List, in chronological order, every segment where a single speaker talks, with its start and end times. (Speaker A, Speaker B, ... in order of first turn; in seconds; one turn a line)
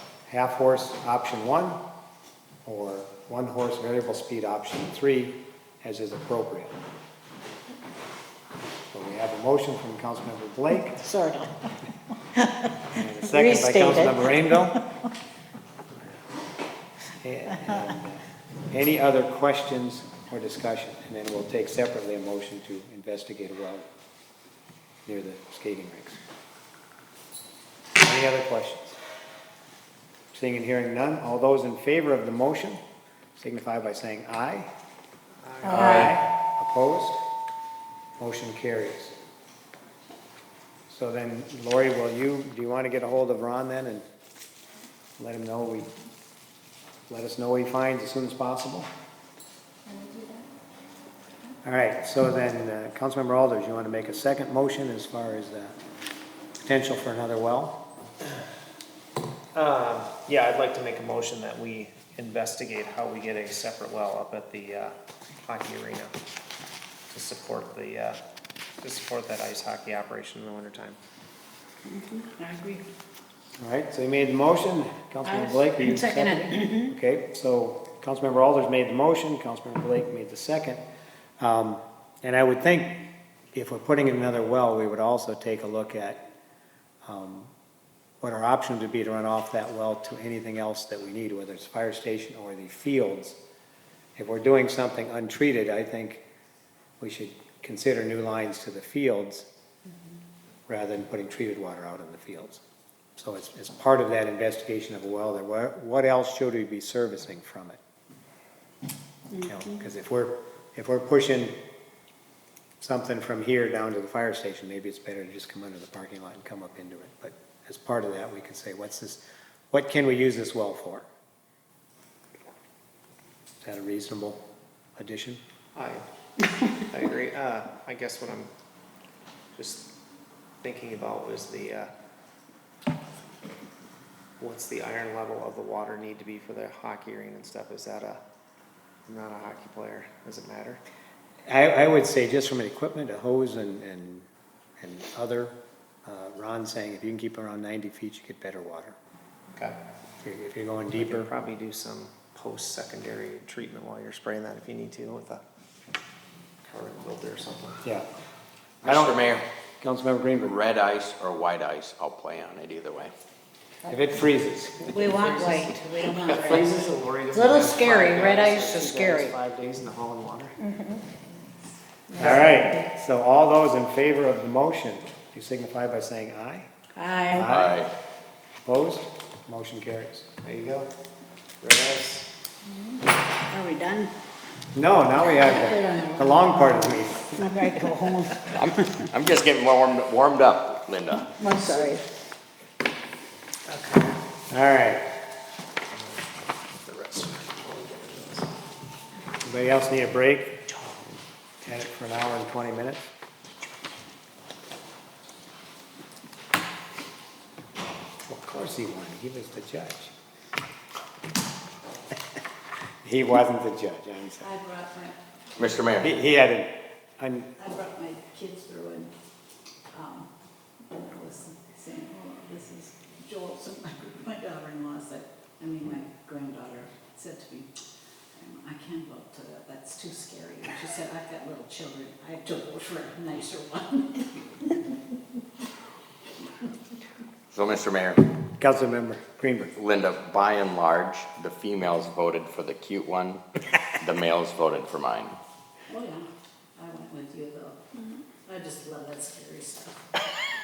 Speaker A: 0.3-1.8
Speaker A: 2.6-6.8
Speaker A: 8.9-11.0
Speaker B: 11.0-11.7
Speaker B: 12.4-12.7
Speaker A: 12.9-14.8
Speaker B: 13.2-14.7
Speaker A: 17.2-23.9
Speaker A: 25.1-26.2
Speaker A: 28.0-29.0
Speaker A: 30.3-32.8
Speaker A: 33.4-34.7
Speaker C: 35.4-36.1
Speaker B: 35.7-36.1
Speaker A: 35.7-37.2
Speaker A: 38.2-39.1
Speaker A: 40.9-44.0
Speaker A: 45.2-45.9
Speaker A: 47.1-48.9
Speaker A: 51.6-55.8
Speaker A: 56.7-57.8
Speaker C: 59.5-66.2
Speaker C: 67.1-68.2
Speaker C: 68.8-71.0
Speaker B: 71.9-72.3
Speaker D: 72.4-72.8
Speaker A: 73.6-80.8
Speaker D: 75.3-76.4
Speaker B: 76.5-76.9
Speaker A: 81.4-83.0
Speaker A: 83.5-86.2
Speaker A: 87.0-87.5
Speaker A: 88.2-93.4
Speaker A: 94.2-96.2
Speaker A: 97.0-99.5
Speaker A: 100.7-102.6
Speaker A: 103.2-107.8
Speaker A: 109.4-111.6
Speaker A: 112.8-121.1
Speaker A: 123.6-124.4
Speaker A: 125.0-125.4
Speaker C: 125.8-126.0
Speaker C: 126.7-128.5
Speaker C: 129.6-129.9
Speaker C: 130.6-131.9
Speaker C: 134.4-138.2
Speaker C: 139.1-140.8
Speaker A: 141.5-144.3
Speaker A: 144.8-148.9
Speaker A: 150.2-151.3
Speaker C: 151.0-155.4
Speaker C: 156.7-157.8
Speaker A: 157.8-158.1
Speaker A: 158.8-159.2
Speaker E: 158.8-159.5
Speaker A: 159.8-160.6
Speaker E: 160.4-163.1
Speaker A: 163.9-165.1
Speaker D: 164.9-169.2
Speaker C: 165.0-170.6
Speaker B: 168.1-168.8
Speaker B: 170.6-171.0
Speaker B: 172.1-172.8
Speaker A: 172.2-176.7
Speaker B: 177.0-177.5
Speaker A: 177.3-177.8
Speaker E: 177.5-177.9
Speaker A: 178.7-180.3
Speaker C: 180.4-180.9
Speaker C: 181.6-182.3
Speaker D: 183.5-184.1
Speaker A: 184.7-187.6
Speaker B: 185.2-188.5
Speaker E: 188.5-191.3
Speaker B: 191.4-192.0
Speaker C: 191.6-191.9
Speaker C: 193.7-194.0
Speaker A: 194.5-195.1
Speaker C: 195.9-198.5
Speaker A: 199.4-200.6
Speaker C: 200.7-201.2
Speaker A: 201.6-203.1
Speaker A: 208.3-210.1
Speaker A: 213.0-214.5
Speaker D: 214.4-215.2
Speaker E: 215.6-216.2
Speaker A: 216.0-217.5
Speaker D: 217.6-219.1
Speaker D: 219.9-220.3
Speaker D: 220.9-227.7
Speaker D: 228.3-234.4
Speaker E: 237.5-238.2
Speaker A: 238.6-239.7
Speaker E: 239.8-245.4
Speaker D: 245.9-247.8
Speaker D: 248.4-250.0